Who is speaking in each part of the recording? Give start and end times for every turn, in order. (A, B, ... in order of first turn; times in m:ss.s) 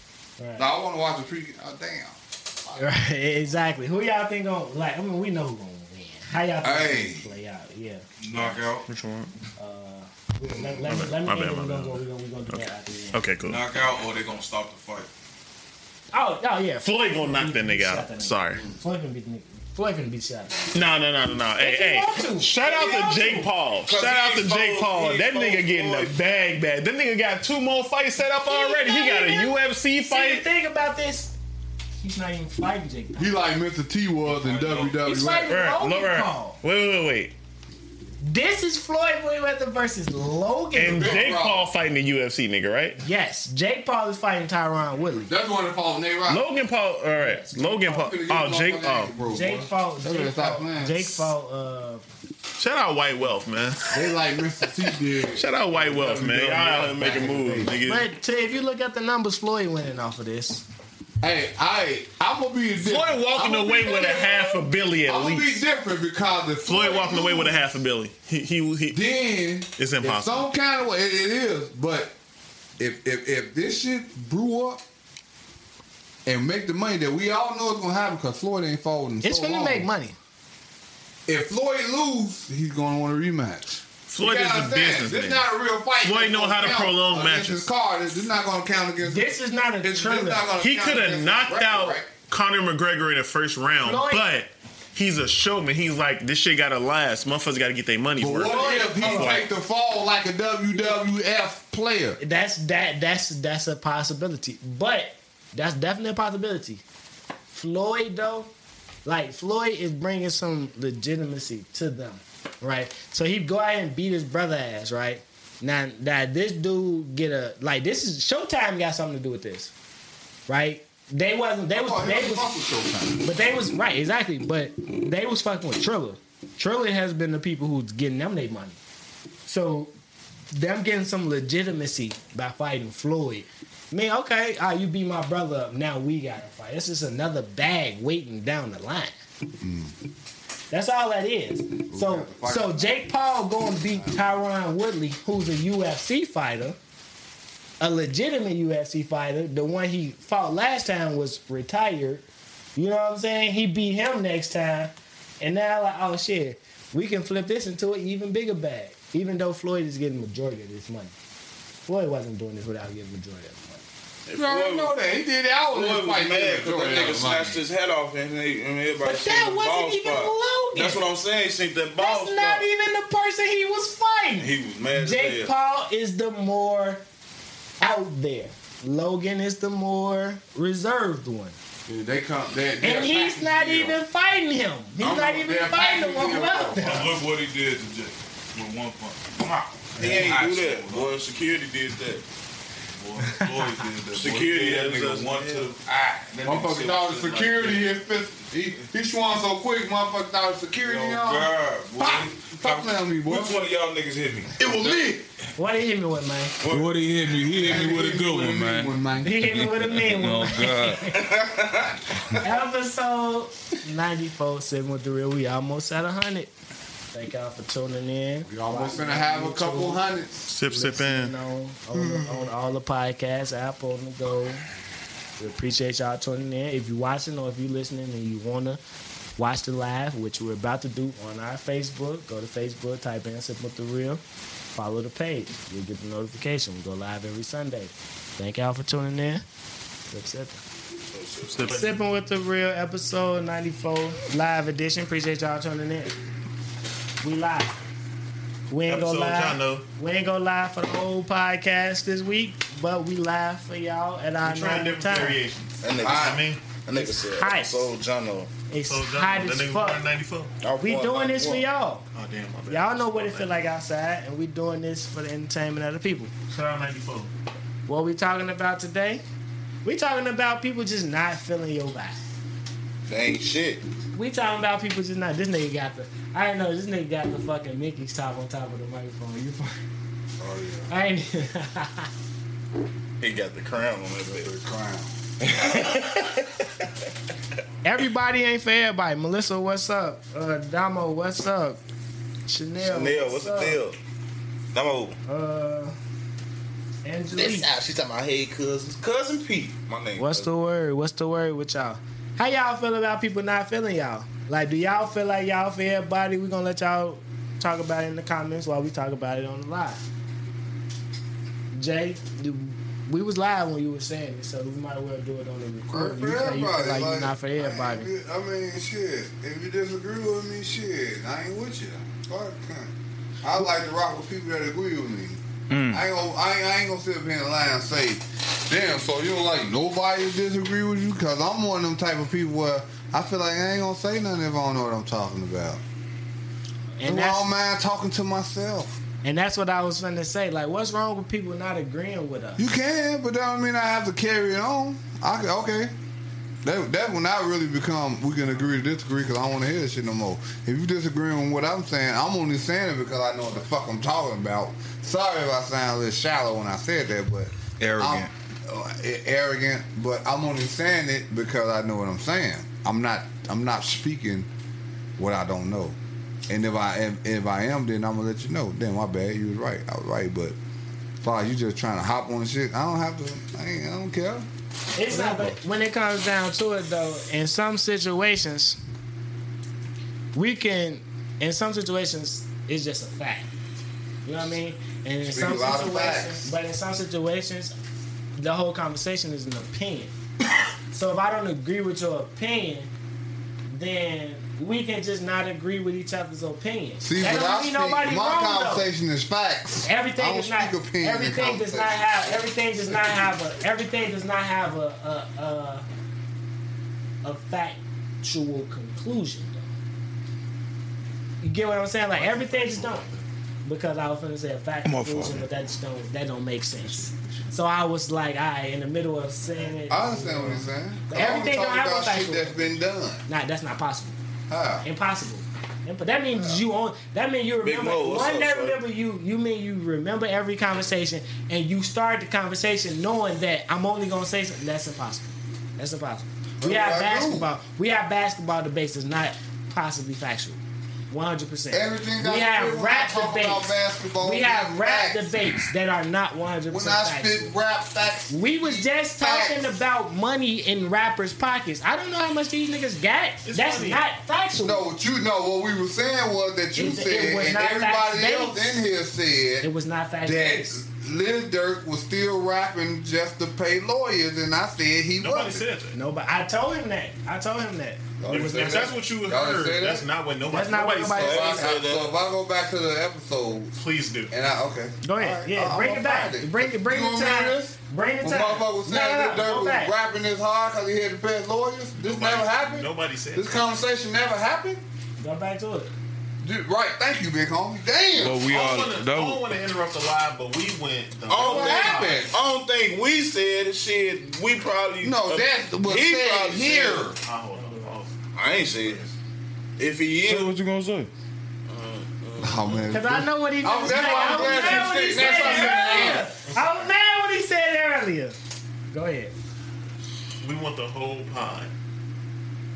0:00.4-0:00.6 A
0:00.6-0:02.8 B
0:02.8-0:08.0 A
0:06.6-0:07.3 B
0:08.2-0:08.9 C
0:08.8-0:09.3 D
0:09.6-0:13.2 A
0:10.5-0:10.8 B
0:10.8-0:13.6 D
0:13.4-0:15.1 C
0:16.1-0:20.8 A
0:16.8-0:18.6 D
0:20.7-0:30.4 D
0:21.6-0:23.5 A
0:22.7-0:23.1 E
0:23.8-0:26.2 E
0:28.4-0:29.6 A
0:30.1-0:31.3 A
0:32.0-0:33.3 A
0:33.2-0:35.5 B
0:34.3-0:35.0 C
0:35.0-0:36.6 A
0:35.5-0:37.3 D
0:38.2-0:41.3 A
0:40.7-0:43.0 D
0:40.8-0:41.7 B
0:43.0-0:45.3 A
0:45.3-0:46.4 B
0:46.3-0:49.1 D
0:47.2-0:47.7 A
0:47.8-0:51.2 B
0:49.3-0:52.0 A
0:52.6-0:54.1 D
0:53.9-0:57.8 B
0:55.2-0:58.1 D
0:57.8-1:00.6 A
1:01.2-1:07.6 B
1:02.8-1:05.6 D
1:06.6-1:09.0 D
1:08.9-1:12.1 B
1:09.8-1:10.5 D
1:12.8-1:14.8 B
1:16.2-1:19.9 B
1:19.2-1:20.2 A
1:21.3-1:32.1 B
1:24.1-1:25.4 D
1:26.0-1:27.7 D
1:29.0-1:30.5 A
1:30.6-1:39.4 D
1:33.8-1:34.3 A
1:38.2-1:42.2 B
1:38.5-1:39.4 A
1:42.2-1:46.8 A
1:47.5-1:48.5 A
1:49.0-1:59.7 A
2:00.5-2:02.5 A
2:01.7-2:03.3 B
2:03.2-2:08.8 A
2:09.5-2:09.9 A
2:10.5-2:19.1 A
2:19.6-2:19.9 B
2:20.7-2:26.8 A
2:21.9-2:23.1 B
2:23.7-2:24.3 B
2:27.8-2:32.2 A
2:32.8-2:41.1 A
2:41.9-2:43.8 A
2:44.3-2:44.9 E
2:44.3-2:47.6 B
2:45.7-2:52.6 E
2:49.0-2:51.0 A
2:52.0-2:57.0 A
2:54.4-2:55.5 E
2:57.8-3:01.6 A
3:01.8-3:04.0 B
3:02.8-3:07.1 A
3:05.0-3:05.4 E
3:05.0-3:07.1 B
3:06.8-3:11.2 C
3:09.5-3:12.2 E
3:13.0-3:17.9 C
3:13.3-3:13.7 A
3:14.1-3:15.7 E
3:16.4-3:23.6 B
3:20.8-3:25.1 C
3:24.6-3:25.2 B
3:25.6-3:26.6 A
3:26.6-3:27.0 E
3:26.7-3:31.1 C
3:27.6-3:29.6 B
3:29.2-3:31.3 A
3:31.1-3:32.4 E
3:32.3-3:36.5 A
3:37.1-3:40.0 A
3:38.4-3:40.5 B
3:40.5-3:41.3 D
3:40.7-3:44.6 A
3:41.9-3:42.4 B
3:45.4-3:48.8 A
3:49.4-3:54.2 A
3:54.7-3:59.4 A
4:00.1-4:00.6 A
4:01.1-4:01.8 E
4:01.5-4:01.9 D
4:01.6-4:06.1 A
4:07.2-4:07.7 A
4:08.7-4:15.4 A
4:08.9-4:09.8 D
4:14.4-4:16.6 D
4:15.8-4:18.5 E
4:16.0-4:16.4 B
4:16.9-4:17.9 A
4:18.7-4:20.0 A
4:18.9-4:20.5 D
4:20.6-4:21.6 E
4:20.8-4:22.0 A
4:22.1-4:23.6 D
4:22.7-4:26.3 A
4:26.5-4:27.3 D
4:27.9-4:29.2 A
4:29.8-4:32.2 A
4:33.1-4:33.8 E
4:34.1-4:39.8 A
4:40.4-4:40.9 B
4:40.9-4:42.1 A
4:43.2-4:44.5 E
4:44.2-4:45.2 B
4:45.4-4:46.6 E
4:47.8-4:51.8 A
4:52.5-4:53.8 A
4:52.8-4:54.0 E
4:54.7-4:55.2 E
4:55.3-4:56.0 A
4:57.0-4:57.7 A
4:57.4-5:00.5 E
5:00.2-5:10.0 A
5:11.7-5:18.1 A
5:15.9-5:35.8 B
5:25.7-5:26.0 C
5:37.0-5:37.4 A
5:37.0-5:39.0 B
5:39.2-5:42.7 A
5:42.6-5:45.9 B
5:46.6-6:04.5 B
5:57.8-5:58.3 C
6:05.2-6:06.0 B
6:06.5-6:10.6 B
6:11.2-6:14.5 B
6:14.9-6:18.8 A
6:15.1-6:15.6 B
6:20.3-6:23.5 A
6:24.2-6:27.8 A
6:25.2-6:26.5 B
6:28.4-6:30.1 A
6:30.9-6:32.9 A
6:33.7-6:38.9 A
6:37.0-6:42.3 B
6:39.8-6:45.8 A
6:47.2-6:49.7 A
6:51.4-6:53.0 A
6:52.1-6:53.2 D
6:53.6-7:02.7 A
6:54.8-6:55.5 C
6:57.0-6:57.5 D
6:59.9-7:03.2 B
7:03.2-7:04.2 A
7:04.5-7:04.8 B
7:04.8-7:23.7 A
7:06.3-7:06.6 B
7:07.6-7:08.8 E
7:16.6-7:17.5 B
7:21.7-7:25.4 B
7:24.2-7:27.5 A
7:26.7-7:29.7 B
7:28.3-7:34.8 A
7:33.4-7:34.0 D
7:34.6-7:39.7 B
7:36.8-7:38.8 A
7:39.6-7:40.8 A
7:40.2-7:45.6 B
7:45.2-7:45.9 D
7:45.9-7:49.0 A
7:48.2-7:50.0 B
7:48.3-7:51.5 D
7:50.5-7:51.7 A
7:51.2-7:52.1 E
7:51.2-7:53.8 B
7:53.8-7:54.3 D
7:54.3-8:04.8 B
7:55.0-7:59.9 A
8:02.0-8:03.7 D
8:05.2-8:05.9 A
8:06.4-8:08.4 B
8:08.1-8:09.4 C
8:08.4-8:12.2 D
8:11.3-8:17.1 E
8:11.4-8:12.3 B
8:15.0-8:17.1 B
8:17.2-8:19.0 D
8:18.4-8:19.1 E
8:19.8-8:20.6 E
8:20.2-8:21.1 C
8:21.7-8:22.8 E
8:22.4-8:26.2 B
8:22.9-8:28.4 A
8:24.3-8:26.9 D
8:28.9-8:29.3 A
8:30.4-8:31.7 D